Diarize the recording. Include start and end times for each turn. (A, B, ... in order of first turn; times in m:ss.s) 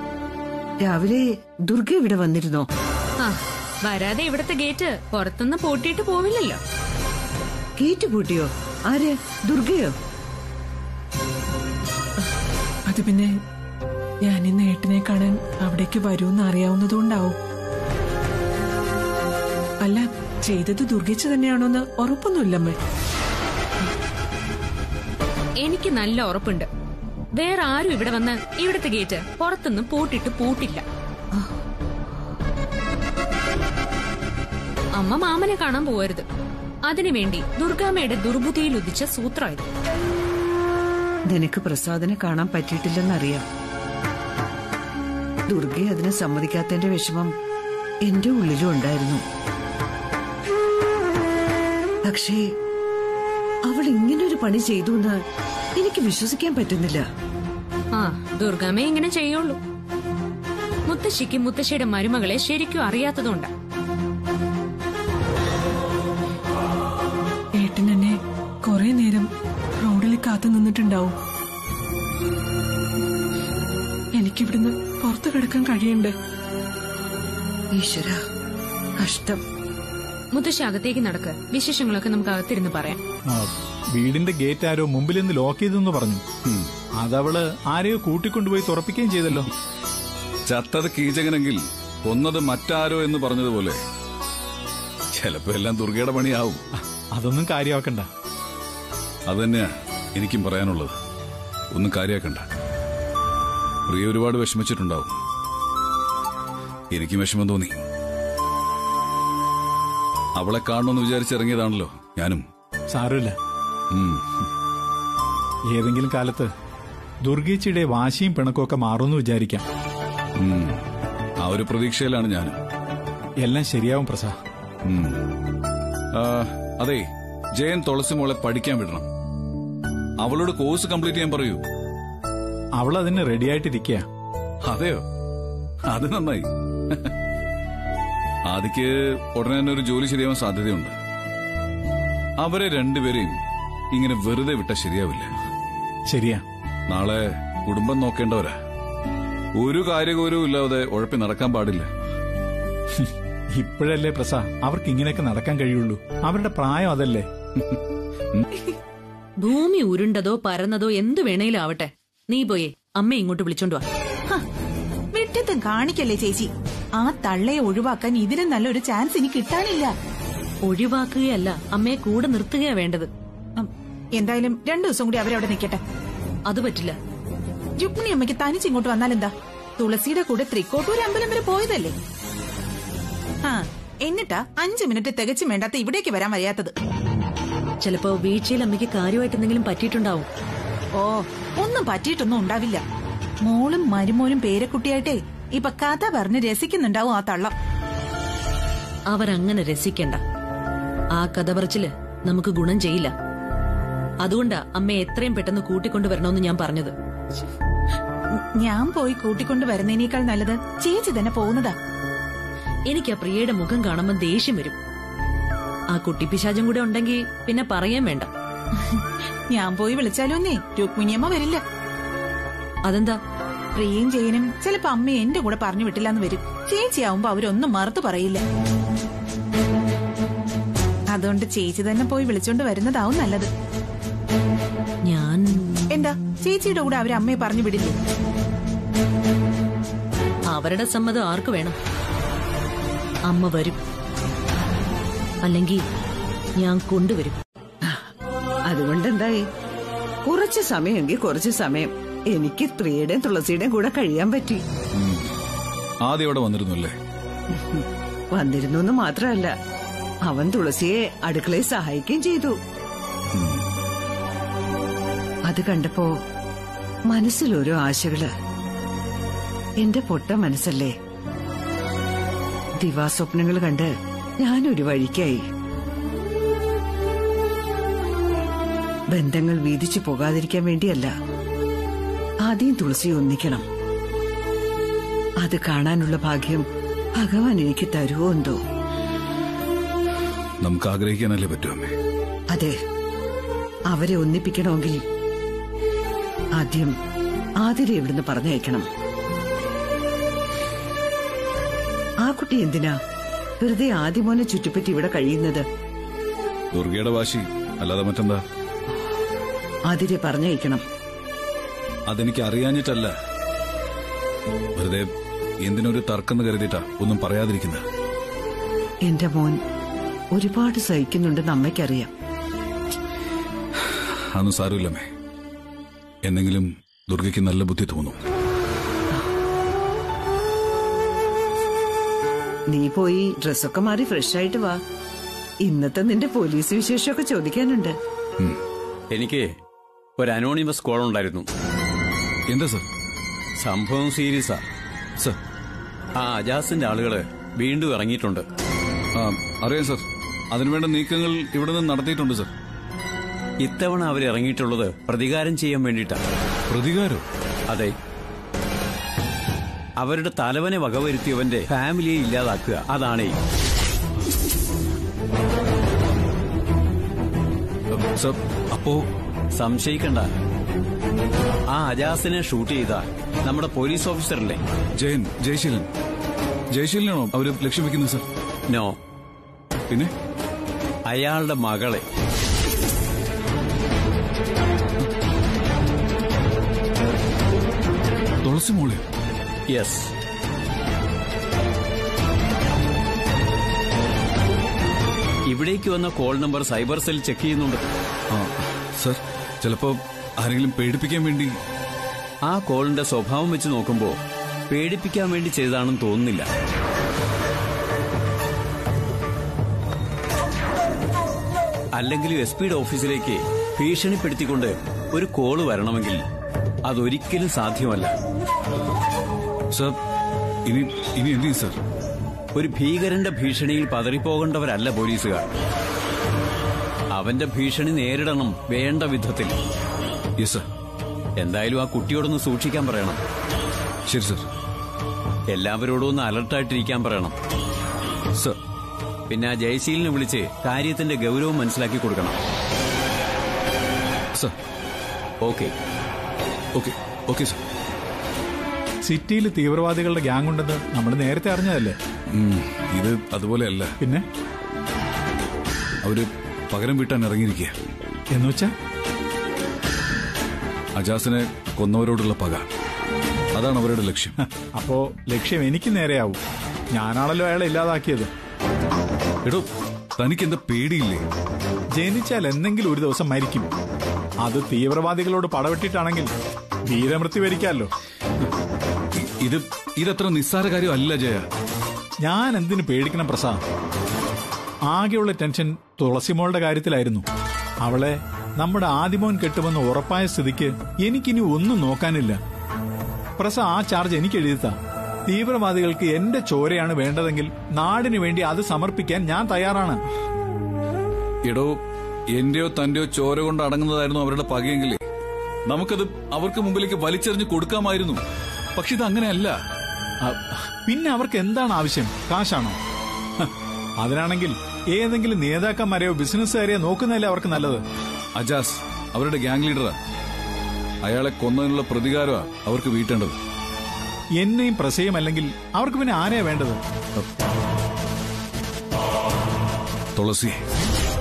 0:00.8-0:02.7 A
0:03.2-0:06.6 B
0:07.8-0:10.0 A
0:12.9-0:13.3 C
0:14.2-0:17.4 C
0:19.8-0:22.8 C
0:25.6-0:26.7 B
0:27.4-0:30.8 B
0:35.0-0:36.2 B
0:36.9-0:39.6 B
0:41.3-0:43.4 A
0:45.5-0:47.3 A
0:48.0-0:49.2 A
0:52.1-0:52.5 A
0:53.7-0:55.2 A
0:55.8-0:57.0 A
0:57.9-0:59.6 B
1:00.9-1:03.5 B
1:07.6-1:11.1 C
1:14.2-1:16.1 C
1:17.7-1:18.2 A
1:19.0-1:19.4 A
1:20.3-1:23.0 B
1:23.3-1:26.2 D
1:27.0-1:29.5 D
1:30.5-1:33.8 E
1:35.1-1:36.6 E
1:37.2-1:38.1 D
1:39.3-1:41.0 E
1:41.7-1:42.4 E
1:43.9-1:45.2 E
1:46.9-1:47.8 E
1:50.4-1:52.4 E
1:52.9-1:53.4 D
1:53.9-1:54.4 E
1:55.7-1:56.5 D
1:57.2-1:59.6 D
2:00.4-2:00.8 E
2:01.4-2:02.6 E
2:03.4-2:04.4 D
2:04.8-2:05.2 E
2:06.1-2:07.0 E
2:07.6-2:09.1 E
2:10.2-2:11.6 E
2:12.8-2:14.0 D
2:14.6-2:15.0 E
2:15.9-2:17.1 E
2:18.5-2:20.9 E
2:22.4-2:23.4 E
2:23.9-2:25.3 E
2:26.1-2:26.4 D
2:26.9-2:28.6 E
2:29.6-2:31.9 E
2:32.9-2:37.3 D
2:39.4-2:43.8 F
2:45.1-2:49.9 G
2:50.7-2:53.1 F
2:53.6-2:55.8 G
2:56.5-2:57.0 F
2:57.8-3:01.9 G
3:03.4-3:06.7 G
3:07.8-3:10.3 F
3:11.0-3:12.8 G
3:13.4-3:17.5 G
3:19.1-3:20.2 F
3:21.2-3:23.1 F
3:24.2-3:26.9 F
3:28.6-3:31.7 G
3:32.9-3:34.8 F
3:35.9-3:38.3 F
3:39.0-3:41.6 G
3:42.9-3:43.2 F
3:43.8-3:48.4 G
3:51.1-3:53.5 G
3:55.1-3:55.6 F
3:55.9-3:58.0 G
4:00.5-4:01.8 F
4:03.3-4:03.8 F
4:05.4-4:05.8 F
4:06.6-4:07.4 F
4:08.7-4:09.4 A
4:10.3-4:14.6 A
4:14.9-4:15.3 E
4:16.0-4:16.9 E
4:17.5-4:19.5 A
4:20.3-4:22.6 A
4:23.3-4:23.6 E
4:25.5-4:26.1 A
4:27.1-4:28.3 A
4:29.8-4:30.9 A
4:32.8-4:33.9 A
4:34.4-4:35.4 A
4:39.1-4:41.1 A
4:42.4-4:43.6 A
4:45.4-4:46.6 A
4:47.2-4:48.6 A
4:50.6-4:51.9 E
4:52.5-4:52.8 A
4:53.9-4:55.0 A
4:56.6-4:56.9 A
4:57.6-4:58.9 A
5:02.2-5:03.0 A
5:03.6-5:05.6 A
5:06.7-5:08.4 E
5:09.9-5:10.8 A
5:12.1-5:13.1 E
5:14.8-5:15.1 E
5:15.6-5:17.8 E
5:19.1-5:19.6 A
5:20.3-5:22.1 A
5:23.8-5:25.1 E
5:26.2-5:28.2 E
5:32.7-5:34.8 A
5:35.6-5:37.9 A
5:39.1-5:39.5 H
5:40.2-5:41.5 H
5:42.5-5:42.8 E
5:43.6-5:44.6 H
5:46.2-5:48.4 H
5:49.1-5:52.5 E
5:53.6-5:56.2 H
5:56.7-5:57.2 E
5:57.7-5:57.9 H
6:00.0-6:03.4 H
6:07.9-6:09.0 E
6:09.6-6:10.2 H
6:11.7-6:14.6 H
6:15.0-6:15.9 E
6:16.7-6:18.2 E
6:18.7-6:18.9 H
6:21.1-6:22.0 H
6:28.4-6:29.0 E
6:29.7-6:30.1 H
6:35.5-6:37.8 H
6:38.3-6:41.5 E
6:42.4-6:44.2 H
6:44.7-6:46.5 H
6:52.0-6:56.2 H
6:56.9-6:58.1 H
6:59.7-7:00.0 E
7:00.7-7:01.8 E
7:02.5-7:05.5 H
7:07.1-7:09.6 H
7:10.4-7:10.6 E
7:11.4-7:13.2 H
7:14.1-7:14.4 E
7:15.5-7:17.3 H
7:19.3-7:22.4 H
7:25.4-7:25.7 H
7:26.7-7:27.6 E
7:29.0-7:32.0 D
7:32.3-7:33.9 E
7:36.0-7:37.7 E
7:38.3-7:38.7 D
7:41.0-7:42.7 E
7:43.5-7:44.4 E
7:44.8-7:46.4 D
7:46.9-7:48.3 D
7:50.2-7:51.2 E
7:52.0-7:53.7 D
7:54.4-7:56.3 D
7:56.9-7:57.9 D
7:59.1-8:01.4 E
8:02.2-8:03.6 D
8:04.9-8:07.2 D
8:07.8-8:12.4 D
8:13.4-8:14.8 D
8:15.3-8:20.0 D
8:21.5-8:21.8 E
8:22.4-8:25.0 E
8:25.7-8:28.2 E
8:28.8-8:29.6 E
8:30.2-8:32.8 D
8:34.0-8:37.8 D
8:38.4-8:40.0 E
8:41.0-8:43.3 E
8:44.4-8:46.8 D
8:50.1-8:50.6 E